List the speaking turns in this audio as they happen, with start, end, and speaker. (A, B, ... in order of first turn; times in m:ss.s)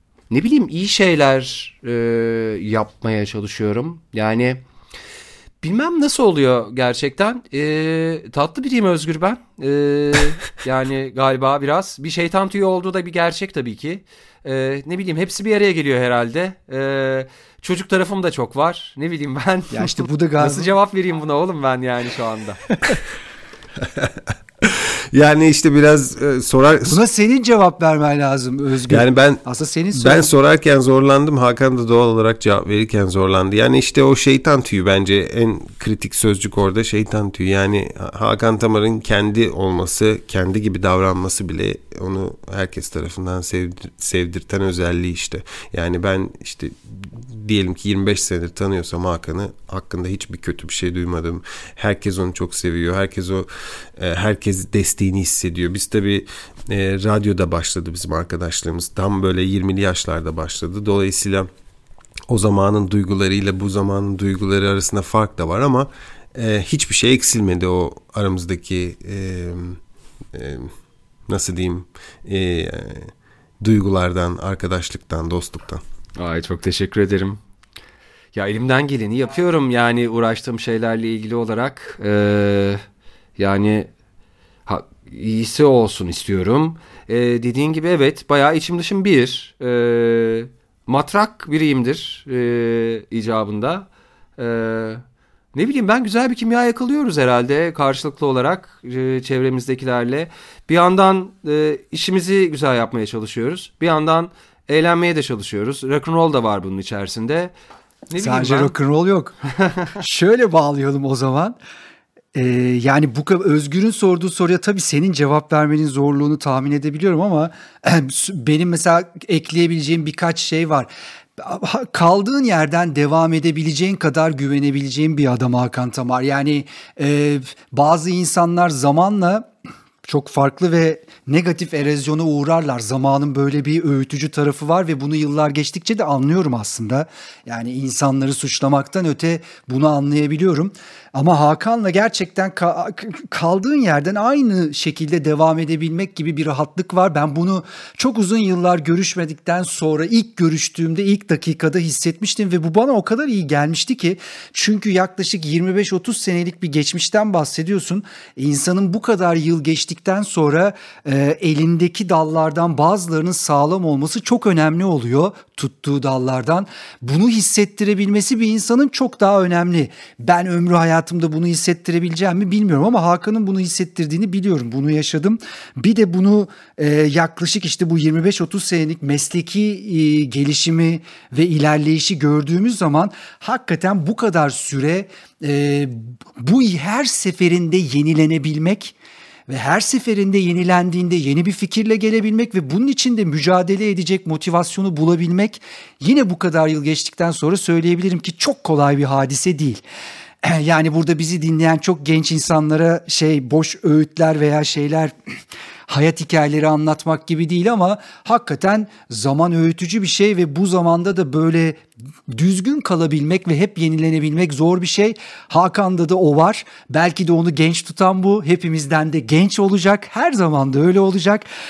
0:00.3-0:04.6 A
0:05.6-0:22.7 A
0:19.7-0:20.7 B
0:23.8-0:27.0 C
0:26.9-0:30.3 B
0:28.9-0:29.4 C
0:29.9-1:01.5 C
1:02.3-1:09.8 C
1:10.3-1:10.7 C
1:11.3-1:15.8 C
1:16.2-1:17.4 A
1:18.4-1:22.8 A
1:23.4-1:23.9 A
1:24.7-1:35.0 A
1:35.6-1:47.5 A
1:48.1-1:48.7 A
1:48.2-1:49.4 B
1:49.6-1:49.9 A
1:50.0-1:51.6 B
1:52.4-2:09.5 B
2:10.0-3:08.9 B
3:09.5-3:19.8 B
3:20.4-3:25.1 B
3:25.9-3:41.4 B